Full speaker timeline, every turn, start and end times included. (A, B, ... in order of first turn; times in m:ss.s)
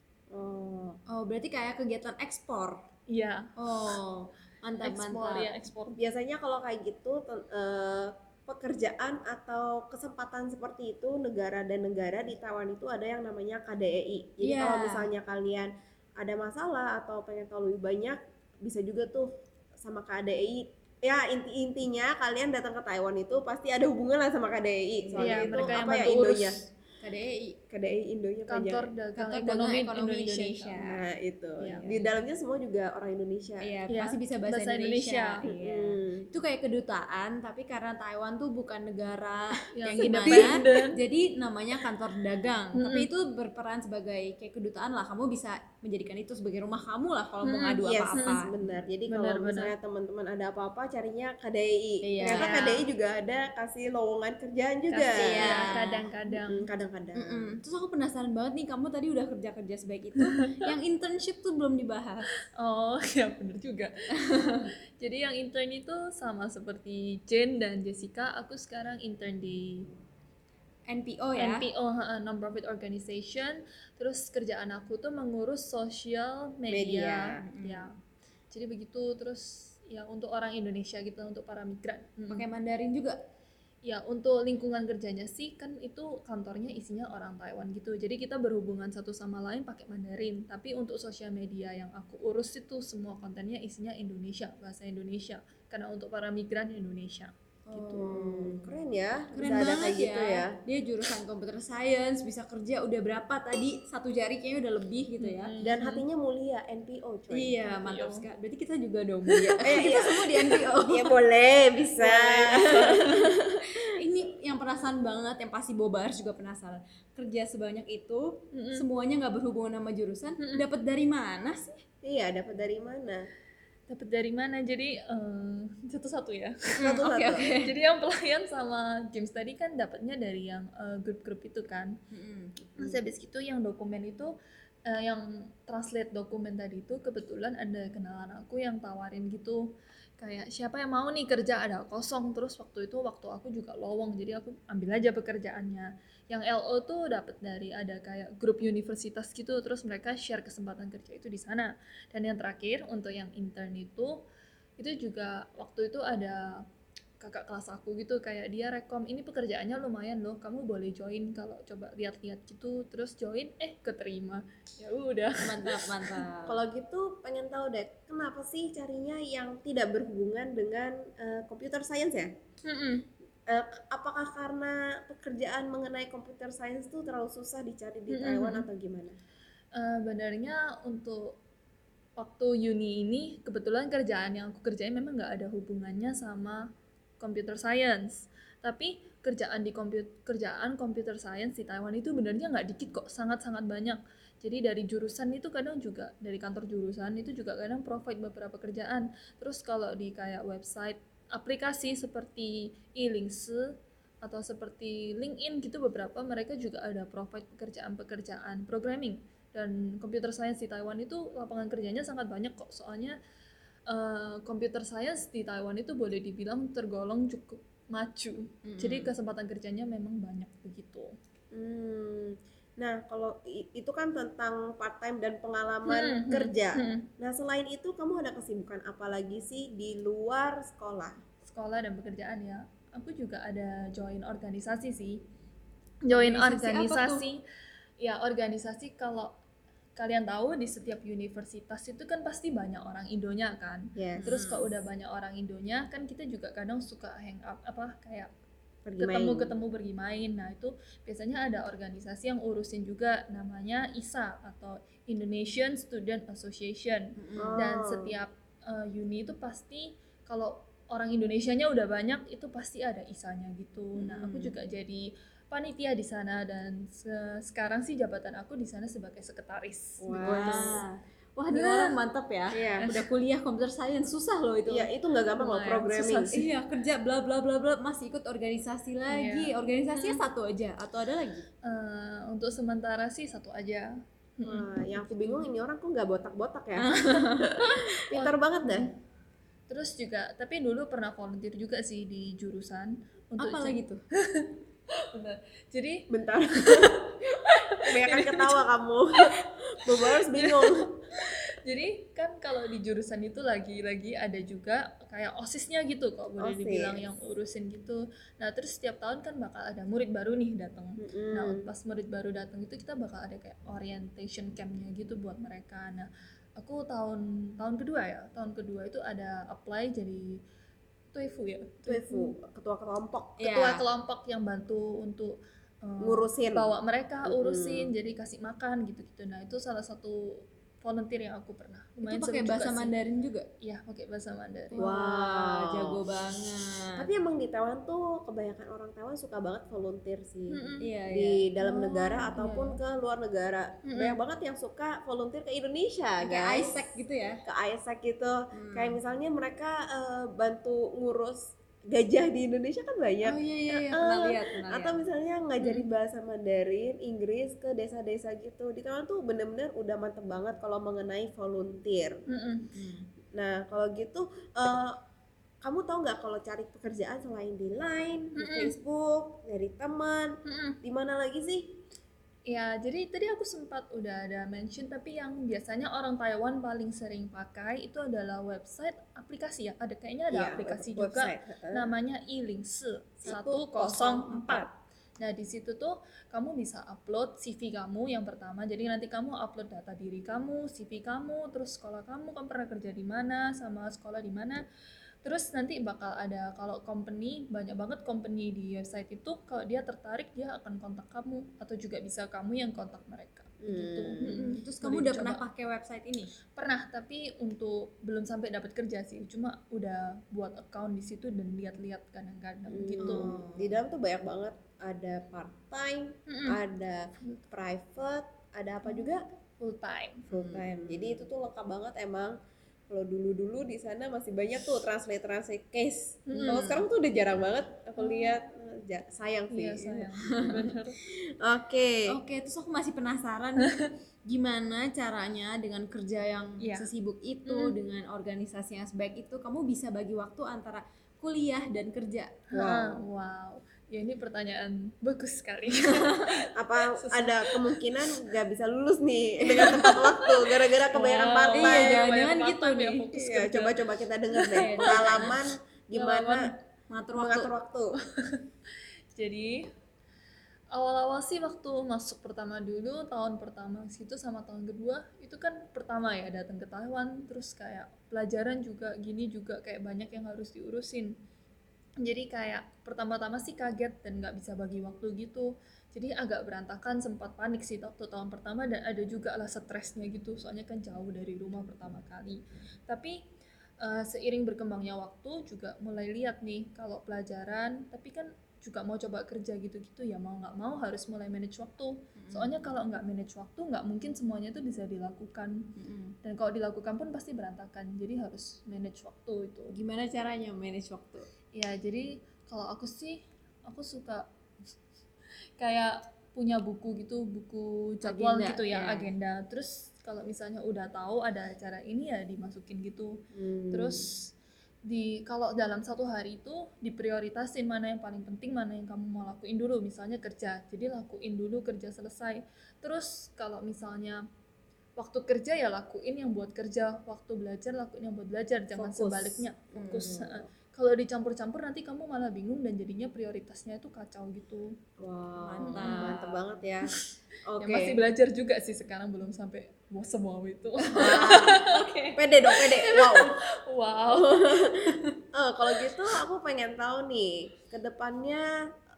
0:00.3-0:01.0 A
0:01.1-0:02.8 B
0:03.1-0:03.5 C
0:03.6-0:05.5 B
0:04.8-0:06.0 C
0:06.0-0:26.6 A
0:14.4-0:15.1 B
0:25.0-0:25.8 B
0:25.2-0:26.6 C
0:27.0-0:27.6 B
0:27.7-0:28.9 A
0:28.5-0:30.8 C
0:29.2-0:31.0 B
0:30.8-0:33.7 A
0:31.6-0:31.9 C
0:33.6-0:48.6 B
0:33.9-0:35.4 C
0:35.4-0:36.3 A
0:39.7-0:41.0 C
0:40.1-0:40.6 A
0:42.7-0:43.1 C
0:47.4-0:48.4 C
0:47.8-0:57.5 A
0:49.1-0:49.7 C
0:52.0-0:52.8 B
0:52.2-0:52.6 C
0:54.9-0:56.7 C
0:55.2-0:56.1 B
0:57.2-1:02.3 B
1:00.2-1:00.6 C
1:02.6-1:09.9 C
1:04.2-1:04.6 B
1:10.9-1:11.6 B
1:11.4-1:17.9 C
1:16.7-1:17.4 A
1:17.4-1:17.9 B
1:18.5-1:22.5 C
1:22.3-1:23.2 B
1:23.8-1:37.3 C
1:37.7-1:38.7 B
1:37.7-1:40.6 A
1:39.3-1:45.5 B
1:45.2-1:46.0 C
1:45.6-1:47.6 A
1:47.3-1:51.1 B
1:47.8-1:48.2 C
1:49.3-1:49.6 C
1:49.6-1:53.8 A
1:52.0-2:01.8 B
1:58.5-1:58.8 C
2:02.0-2:03.3 A
2:03.9-2:06.8 C
2:06.8-2:07.4 A
2:06.8-2:07.7 B
2:07.4-2:12.0 C
2:12.1-2:12.7 B
2:12.8-2:14.3 C
2:14.9-2:19.7 C
2:20.2-2:34.2 C
2:34.8-2:36.6 C
2:37.2-2:46.2 C
2:45.4-2:46.6 B
2:46.4-2:52.3 A
2:52.6-2:53.0 C
2:53.5-2:59.2 A
2:58.1-2:58.6 C
2:59.7-3:01.4 C
3:02.2-3:06.7 C
3:07.2-3:33.2 C
3:33.9-3:41.1 C
3:38.6-3:39.1 B
3:41.5-3:51.2 A
3:45.9-3:47.1 C
3:51.4-3:55.2 C
3:56.0-3:57.4 C
3:56.1-3:57.2 B
3:58.0-3:59.3 C
4:00.0-4:08.3 C
4:04.0-4:04.3 A
4:04.2-4:04.7 B
4:08.8-4:09.5 A
4:09.0-4:30.8 C
4:17.2-4:17.5 B
4:17.4-4:18.1 A
4:24.0-4:24.6 B
4:30.0-4:30.8 A
4:30.1-4:34.9 B
4:31.5-4:32.0 C
4:32.5-4:32.9 A
4:32.8-4:33.1 C
4:34.7-4:36.3 A
4:35.4-4:36.5 C
4:36.3-4:41.4 B
4:39.1-4:40.2 C
4:41.6-4:45.5 C
4:44.4-4:48.9 A
4:46.8-4:48.2 B
4:48.2-4:48.9 C
4:49.7-4:58.6 C
4:53.4-4:54.0 B
4:56.1-4:57.2 A
4:57.8-5:00.9 A
5:00.0-5:20.4 C
5:06.4-5:07.0 A
5:11.0-5:11.7 A
5:21.1-5:22.3 C
5:21.8-5:23.5 A
5:23.4-5:23.8 B
5:23.4-5:32.9 C
5:26.0-5:26.7 A
5:27.2-5:27.9 A
5:32.0-5:33.5 B
5:33.6-5:34.9 C
5:34.7-5:37.1 B
5:34.8-5:36.0 A
5:37.0-5:46.8 A
5:40.5-5:40.9 C
5:40.8-5:41.4 B
5:41.6-5:42.8 C
5:43.9-5:44.1 B
5:46.2-5:47.4 B
5:47.4-6:02.2 A
5:48.5-5:49.0 B
5:53.2-5:55.0 B
6:02.3-6:02.7 C
6:02.7-6:03.1 B
6:03.3-6:05.0 A
6:05.6-6:11.8 A
6:08.4-6:08.7 C
6:10.4-6:10.8 C
6:12.5-6:34.6 C
6:20.3-6:21.9 A
6:23.2-6:24.7 A
6:35.2-6:45.4 C
6:43.6-6:44.5 A
6:44.2-6:46.3 B
6:46.5-6:53.3 C
6:52.7-6:59.2 A
6:53.0-6:53.7 B
6:56.3-6:56.6 C
6:58.9-7:00.3 C
7:00.3-7:02.4 A
7:00.3-7:00.7 B
7:02.9-7:12.2 A
7:06.3-7:06.6 C
7:06.4-7:06.8 B
7:08.0-7:08.4 C
7:09.5-7:11.0 C
7:10.3-7:10.7 B
7:12.1-7:22.4 B
7:13.6-7:13.9 C
7:16.6-7:16.9 C
7:17.4-7:17.7 C
7:22.5-7:27.7 C
7:22.5-7:23.0 A
7:25.8-7:26.2 B
7:26.5-7:32.1 A
7:29.5-7:30.3 C
7:30.9-7:33.8 C
7:31.5-7:33.1 B
7:33.1-7:36.5 A
7:34.3-7:35.3 C
7:34.6-7:35.4 B
7:35.9-7:36.6 C
7:36.9-7:37.5 B
7:37.1-7:38.0 A
7:39.1-7:39.7 C
7:40.7-7:51.1 C
7:52.0-8:03.2 C
8:03.8-8:19.7 C
8:12.2-8:12.6 B
8:15.8-8:16.2 B
8:19.7-8:21.2 B
8:21.5-8:24.3 C
8:25.6-8:33.2 C
8:28.0-8:29.1 B
8:33.3-8:34.0 A
8:33.7-8:34.3 C
8:34.8-8:44.2 C
8:45.0-8:54.7 C
8:48.7-8:50.4 A
8:55.0-8:56.9 A
8:55.4-8:56.4 B
8:55.6-8:56.1 C
8:57.5-8:58.0 A
8:57.6-9:05.2 C
9:00.9-9:02.1 B
9:00.9-9:03.4 A
9:04.1-9:08.5 A